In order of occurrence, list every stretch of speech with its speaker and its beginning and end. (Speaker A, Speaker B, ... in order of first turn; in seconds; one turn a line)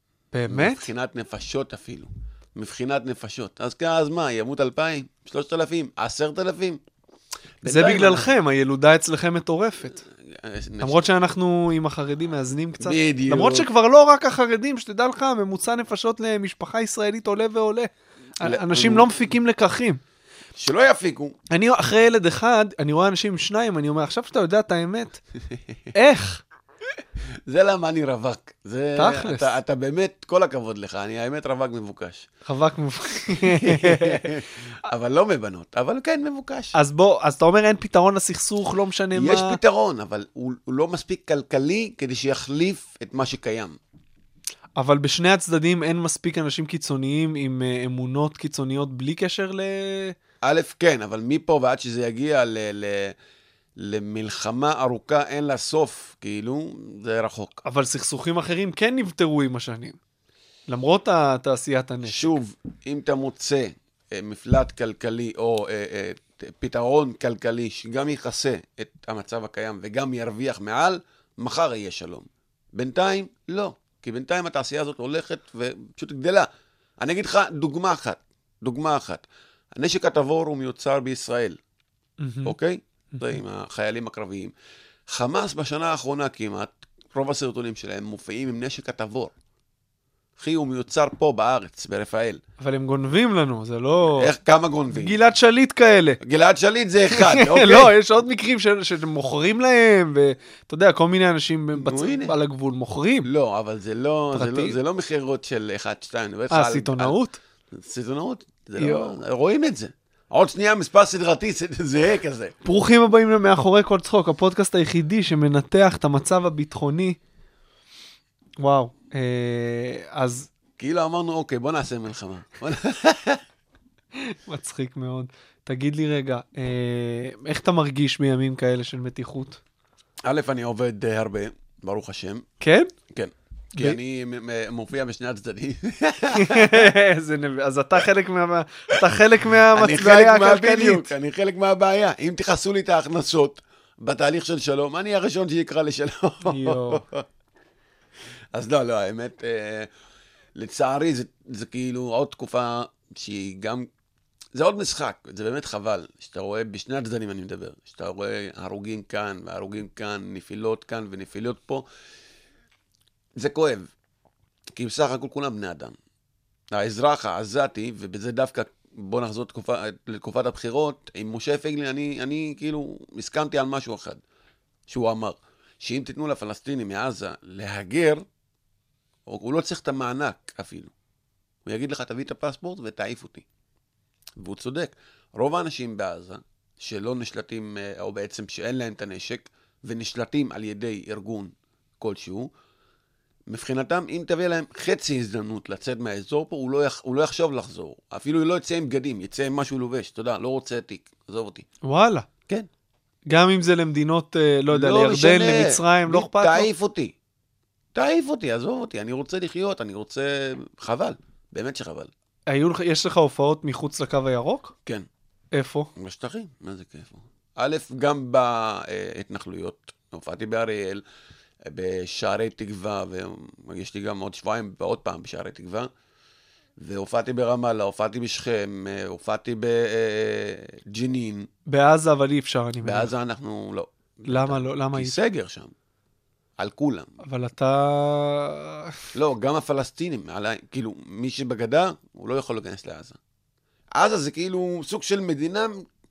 Speaker A: 0.3-0.9
Speaker B: 0.5-6.8
Speaker B: 7.6-8.3
Speaker A: 7.6-10.0
Speaker B: 10.0-11.1
Speaker A: 10.8-20.0
Speaker B: 12.8-13.7
Speaker B: 18.4-19.1
Speaker B: 20.6-21.4
Speaker A: 21.5-25.2
Speaker A: 25.9-26.4
Speaker B: 27.5-32.3
Speaker A: 28.9-29.5
Speaker A: 32.5-34.3
Speaker B: 33.4-36.7
Speaker A: 36.7-39.6
Speaker B: 39.1-43.8
Speaker A: 44.8-50.1
Speaker B: 50.4-53.1
Speaker B: 53.8-57.6
Speaker A: 57.6-60.0
Speaker A: 60.7-62.4
Speaker B: 62.0-76.5
Speaker B: 77.0-79.2
Speaker B: 79.8-81.6
Speaker A: 82.2-82.5
Speaker B: 82.4-84.5
Speaker A: 83.1-83.4
Speaker B: 85.1-89.3
Speaker B: 90.4-92.4
Speaker A: 92.6-94.3
Speaker B: 94.1-95.2
Speaker A: 94.9-96.2
Speaker B: 96.2-97.9
Speaker A: 97.1-103.3
Speaker B: 101.8-102.3
Speaker B: 103.2-107.2
Speaker A: 104.3-104.8
Speaker A: 106.5-107.4
Speaker B: 107.7-112.5
Speaker A: 108.8-109.1
Speaker A: 112.6-117.2
Speaker A: 118.6-120.5
Speaker B: 120.8-123.4
Speaker A: 124.2-129.6
Speaker B: 130.2-132.4
Speaker A: 132.6-132.9
Speaker B: 133.1-136.9
Speaker A: 136.3-141.1
Speaker B: 139.7-147.2
Speaker A: 146.4-147.0
Speaker B: 148.5-149.9
Speaker B: 150.6-153.9
Speaker B: 154.5-161.8
Speaker B: 163.3-163.9
Speaker B: 164.7-165.9
Speaker B: 166.7-174.2
Speaker B: 174.9-178.2
Speaker B: 179.3-180.9
Speaker B: 181.7-183.4
Speaker B: 184.4-192.5
Speaker B: 193.5-201.7
Speaker A: 201.8-202.3
Speaker A: 203.3-206.7
Speaker B: 204.7-207.1
Speaker B: 207.9-212.1
Speaker A: 212.5-214.7
Speaker A: 215.5-215.9
Speaker B: 215.9-221.0
Speaker B: 221.7-225.9
Speaker B: 226.8-231.5
Speaker A: 231.7-233.1
Speaker B: 232.8-235.7
Speaker A: 234.3-235.2
Speaker B: 236.6-237.1
Speaker A: 237.2-239.1
Speaker B: 239.1-243.2
Speaker B: 243.9-245.8